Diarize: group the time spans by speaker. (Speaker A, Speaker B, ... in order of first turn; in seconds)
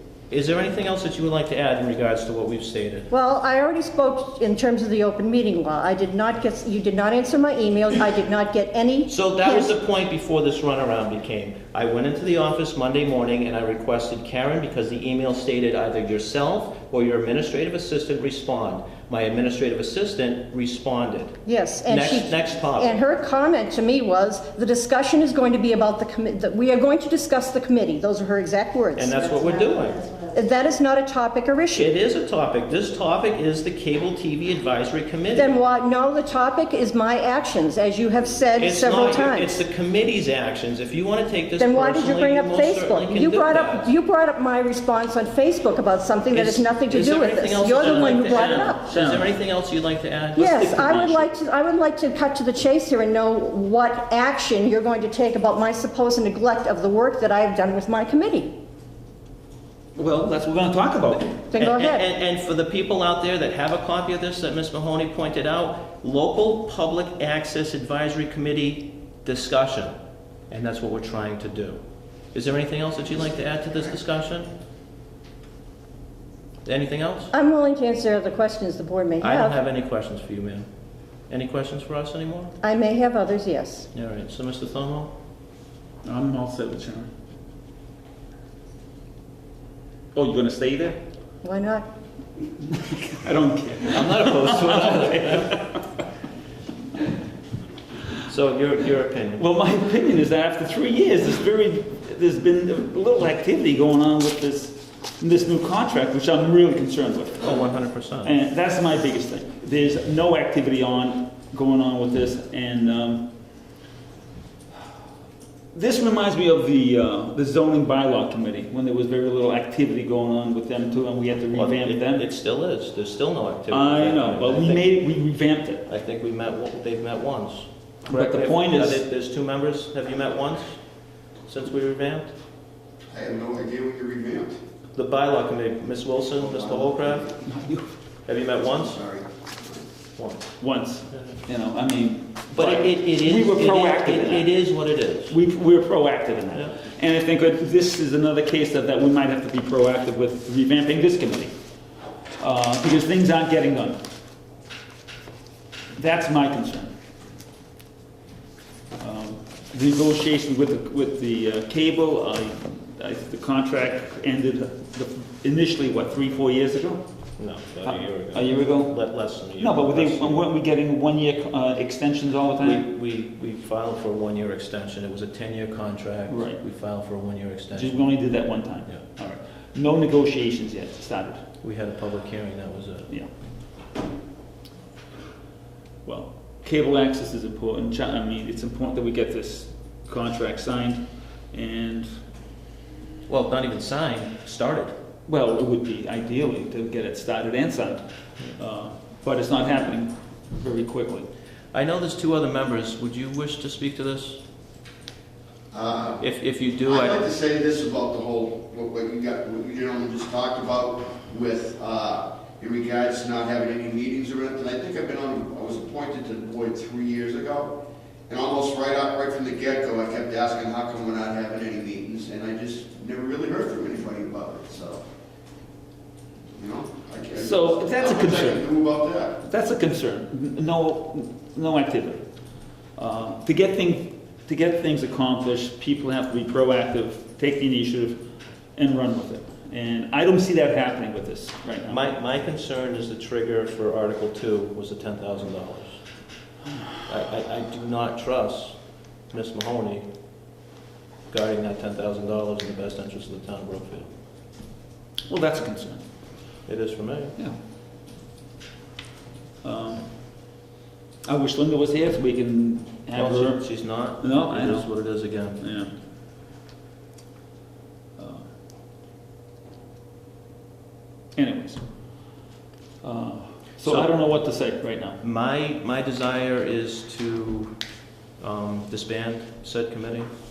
Speaker A: 0.3-3.1, 9.1-23.0, 28.9-30.0, 31.7-35.5, 38.6-43.9, 46.3-50.4, 61.5-69.9, 70.5-71.8, 72.3-74.5, 76.6-77.3, 79.2-80.7, 81.3-82.5, 83.9-85.1, 93.9-95.6, 98.3-99.4, 107.4-108.3, 121.5-124.9, 125.8-130.8, 131.4-132.3, 134.9-137.3, 138.2-139.0, 140.1-140.5, 142.5-145.3, 146.5-146.8, 167.4-170.4, 172.6-178.1, 181.6-183.1, 193.3-194.9, 201.7-204.4, 206.2-207.3, 241.9-246.0, 247.1-248.8, 249.3-250.1, 251.3-254.1, 256.6-257.3, 263.1-265.6, 273.8-274.1, 275.2-277.8, 278.4-280.3
Speaker B: 3.1-9.7, 21.4-29.6, 30.2-31.9, 35.3-39.6, 41.6-48.8, 50.4-58.5, 61.5-62.0, 77.3-79.6, 82.6-83.9, 91.4-91.9
Speaker C: 47.7-49.3, 50.4-51.3, 60.0-61.4, 86.0-87.1, 90.1-91.0, 92.6-95.8, 99.4-107.6, 108.2-113.3, 115.7-122.2, 123.7-125.8, 128.1-129.0, 137.4-137.9, 140.6-144.5, 145.3-151.5, 152.4-154.0, 155.9-156.9, 159.0-167.0, 167.8-172.8, 176.3-176.6, 177.7-181.4, 186.0-192.1, 195.3-201.3, 227.3-228.7, 229.4-232.2, 232.9-238.2, 238.8-242.0, 255.3-256.0, 259.6-260.1, 261.2-264.9, 265.6-265.9, 268.2-268.5, 271.4-271.8, 273.0-275.2
Speaker D: 133.1-134.6, 136.4-137.3, 138.7-139.9, 205.7-206.3, 206.8-225.0, 226.5-229.4